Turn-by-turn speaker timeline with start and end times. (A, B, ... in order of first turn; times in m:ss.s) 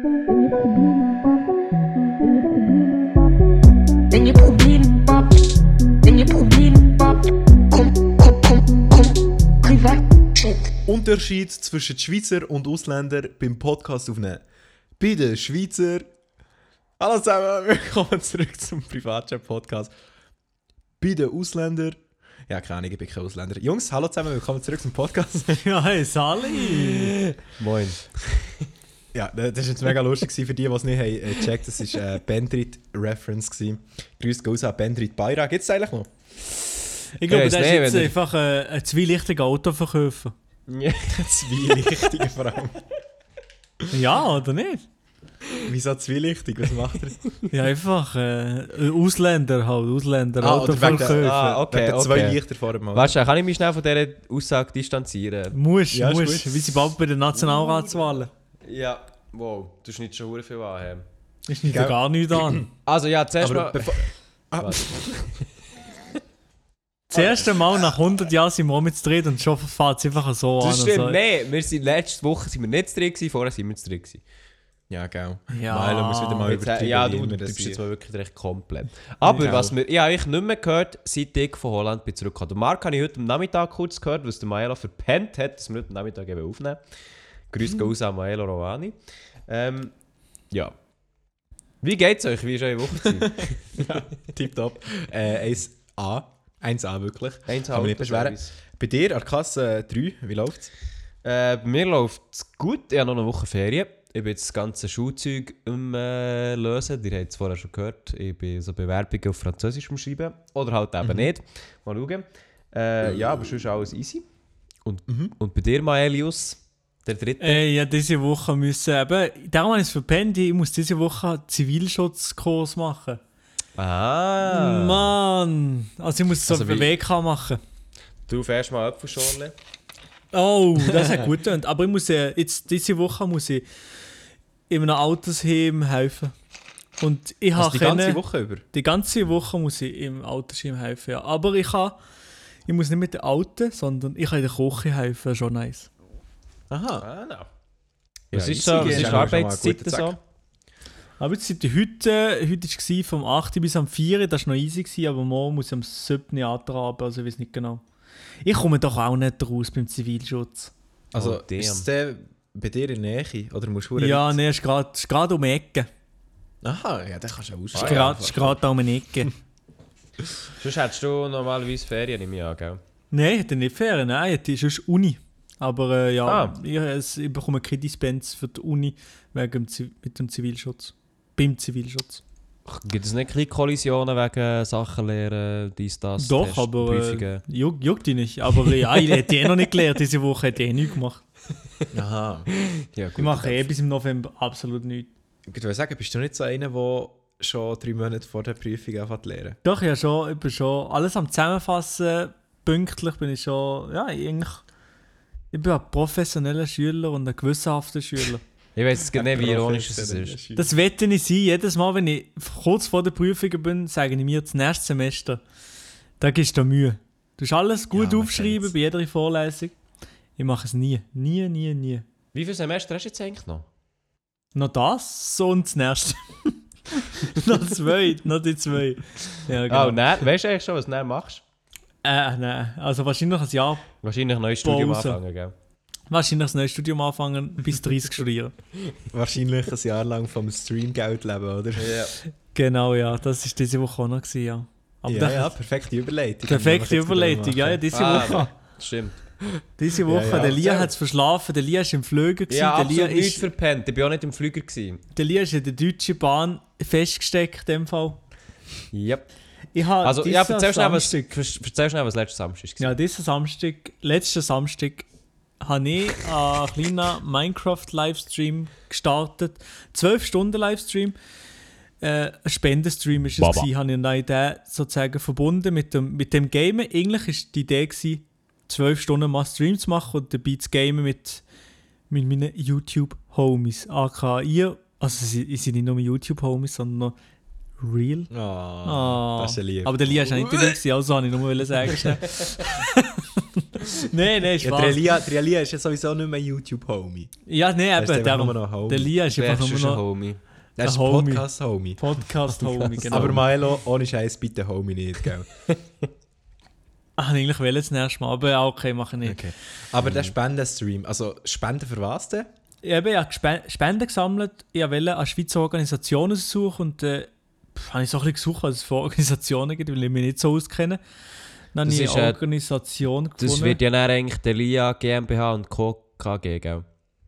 0:00.3-0:00.8 A
0:04.1-0:05.4 A
0:06.0-0:10.7 A
0:10.9-0:14.4 B
0:15.0-0:16.1 B
0:17.0-0:19.9 B
0:21.0-0:22.0 B
0:22.5-0:25.6 B
0:25.5-0:27.1 C
0:26.7-0:28.1 D
0:29.1-0:36.1 B
0:37.2-0:40.3 C
0:37.3-0:38.1 D
0:40.7-0:42.1 D
0:41.1-0:42.8 B
0:43.9-0:44.8 C
0:45.6-0:47.2 B
0:47.5-0:51.3 C
0:50.4-0:53.1 B
0:50.8-0:52.4 D
0:52.9-0:55.6 D
0:55.5-0:58.3 C
0:55.9-0:56.9 B
0:57.4-0:58.0 D
0:58.6-1:01.0 D
1:01.5-1:02.6 C
1:01.7-1:02.7 B
1:02.8-1:05.3 D
1:03.4-1:05.4 B
1:07.1-1:11.2 C
1:10.6-1:14.2 D
1:14.9-1:17.8 B
1:15.5-1:16.5 C
1:16.4-1:26.8 D
1:19.3-1:19.7 B
1:27.5-1:29.9 D
1:31.8-1:33.9 D
1:33.7-1:40.7 B
1:37.5-1:38.5 D
1:41.2-1:54.2 D
1:51.0-1:51.3 B
1:54.8-1:57.6 D
1:55.1-1:55.3 B
1:57.4-2:03.2 C
2:03.8-2:05.1 D
2:04.4-2:07.6 C
2:06.5-2:06.9 D
2:08.3-2:09.5 D
2:10.3-2:13.6 C
2:14.7-2:16.3 C
2:17.0-2:22.0 C
2:17.5-2:18.6 B
2:22.7-2:25.9 C
2:26.7-2:27.0 B
2:27.0-2:27.5 D
2:28.3-2:30.1 B
2:28.3-2:30.2 D
2:28.7-2:29.3 C
2:31.2-2:37.8 C
2:38.4-2:40.7 C
2:41.1-2:44.4 B
2:41.1-2:41.8 D
2:44.0-2:45.9 C
2:46.6-2:48.6 B
2:47.7-2:48.1 D
2:47.8-2:49.3 C
2:50.6-2:52.8 D
2:53.1-3:02.2 C
2:56.2-2:56.5 D
3:02.6-3:07.4 D
3:06.2-3:11.2 C
3:11.9-3:12.5 B
3:12.7-3:13.6 D
3:13.2-3:15.1 C
3:15.5-3:19.6 B
3:19.6-3:24.6 C
3:25.5-3:28.4 C
3:28.8-3:30.4 D
3:29.1-3:30.7 B
3:30.6-3:35.4 C
3:36.2-3:39.7 C
3:38.0-3:38.6 B
3:40.4-3:42.0 C
3:42.3-3:43.6 D
3:44.5-3:50.0 C
3:49.7-3:51.4 D
3:52.0-3:53.9 C
3:54.0-3:55.5 D
3:54.6-3:55.2 C
3:56.1-3:58.5 C
3:59.1-4:02.0 B
4:01.8-4:02.1 D
4:02.5-4:05.6 C
4:05.1-4:08.4 B
4:06.5-4:08.5 C
4:07.9-4:09.2 D
4:09.8-4:13.4 C
4:10.0-4:10.9 B
4:12.5-4:15.0 D
4:15.1-4:18.2 C
4:18.9-4:19.3 D
4:19.7-4:21.3 C
4:20.0-4:23.0 D
4:22.8-4:25.1 C
4:25.6-4:31.2 C
4:32.0-4:41.4 C
4:42.1-4:47.1 C
4:47.8-4:48.3 C
4:48.3-4:50.7 B
4:48.8-4:55.1 C
4:54.6-4:57.3 B
4:57.5-5:00.0 C
4:58.0-4:59.1 B
4:59.3-5:00.4 D
5:00.8-5:05.5 B
5:00.8-5:03.4 C
5:07.2-5:09.5 C
5:09.2-5:12.5 B
5:12.8-5:21.0 C
5:21.7-5:23.8 C
5:21.8-5:22.4 D
5:23.4-5:26.8 D